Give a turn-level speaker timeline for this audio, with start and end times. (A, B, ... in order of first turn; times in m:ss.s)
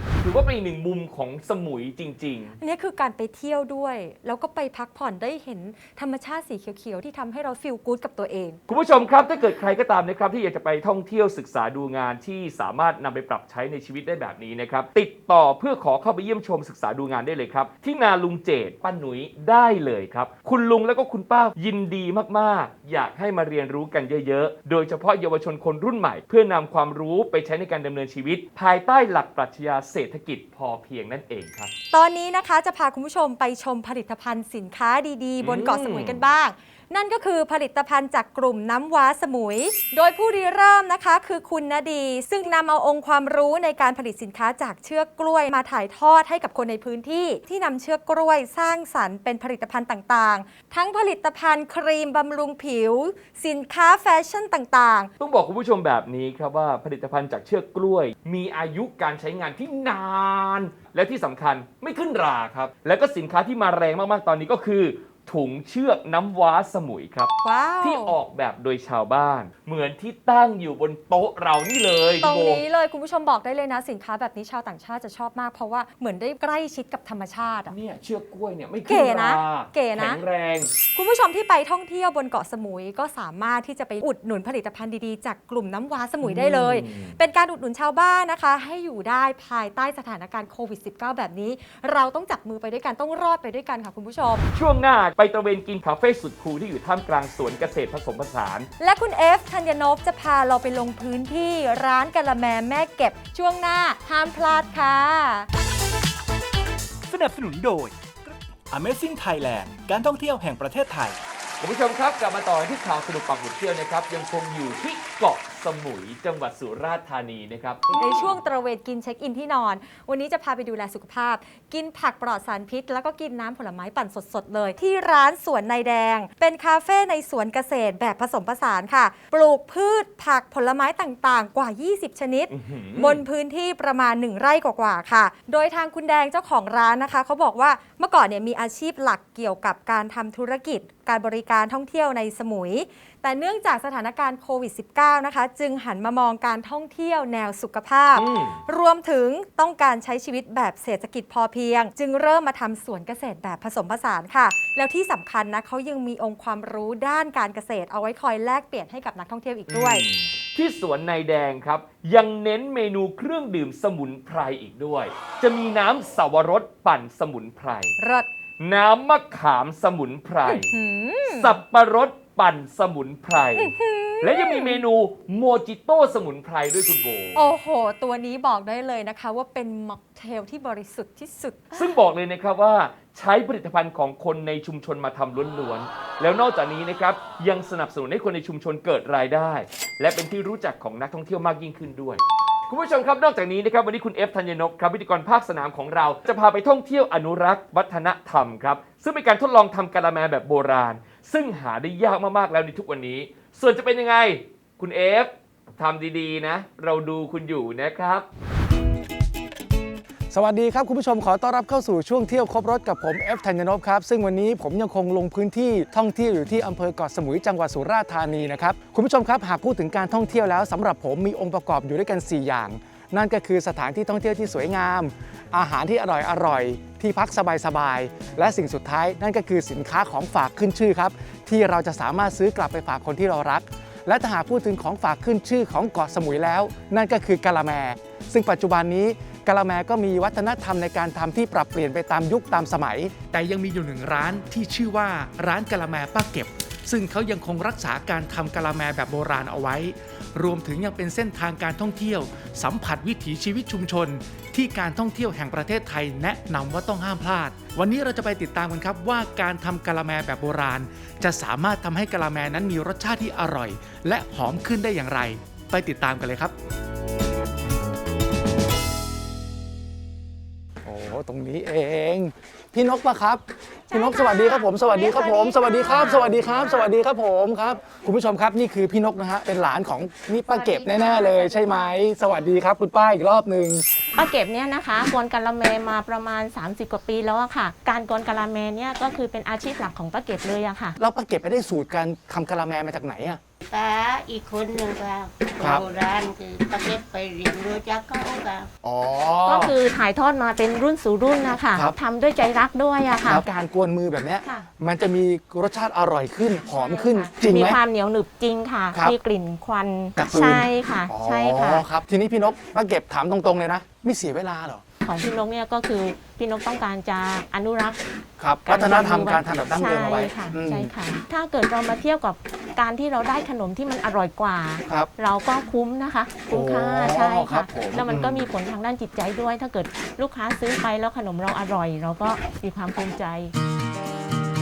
0:00.2-0:02.6 A
0:02.6-0:08.6 B
0:08.7-0:31.7 A
0:31.9-0:55.1 B
0:35.4-0:36.2 A
0:55.2-1:12.6 A
1:07.4-1:08.2 B
1:12.2-1:17.7 B
1:17.6-1:20.7 A
1:18.8-1:20.2 B
1:20.9-1:34.5 B
1:26.2-1:27.2 A
1:34.5-1:38.7 A
1:38.8-1:45.5 B
1:47.1-1:51.2 C
1:51.6-1:58.3 A
1:57.9-2:40.0 B
2:12.5-2:13.2 A
2:28.1-2:28.6 A
2:39.7-2:48.0 A
2:48.0-2:48.3 B
2:48.6-2:50.7 A
2:50.4-2:51.6 B
2:51.3-2:57.4 A
2:53.6-2:54.8 B
2:57.3-3:01.9 B
3:01.7-3:28.3 A
3:30.3-4:26.5 D
4:30.8-4:43.8 D
4:33.9-4:36.9 E
4:40.5-4:42.0 E
4:44.1-4:51.0 E
4:51.0-4:53.4 D
4:53.7-4:58.7 F
4:55.6-4:55.9 D
4:58.8-4:59.8 D
4:59.4-5:03.4 E
5:01.6-5:02.0 D
5:03.2-5:07.8 D
5:04.4-5:04.7 E
5:06.7-5:11.8 E
5:10.2-5:14.8 D
5:15.0-5:18.0 E
5:18.4-5:20.9 D
5:18.6-5:33.5 E
5:26.5-5:28.5 D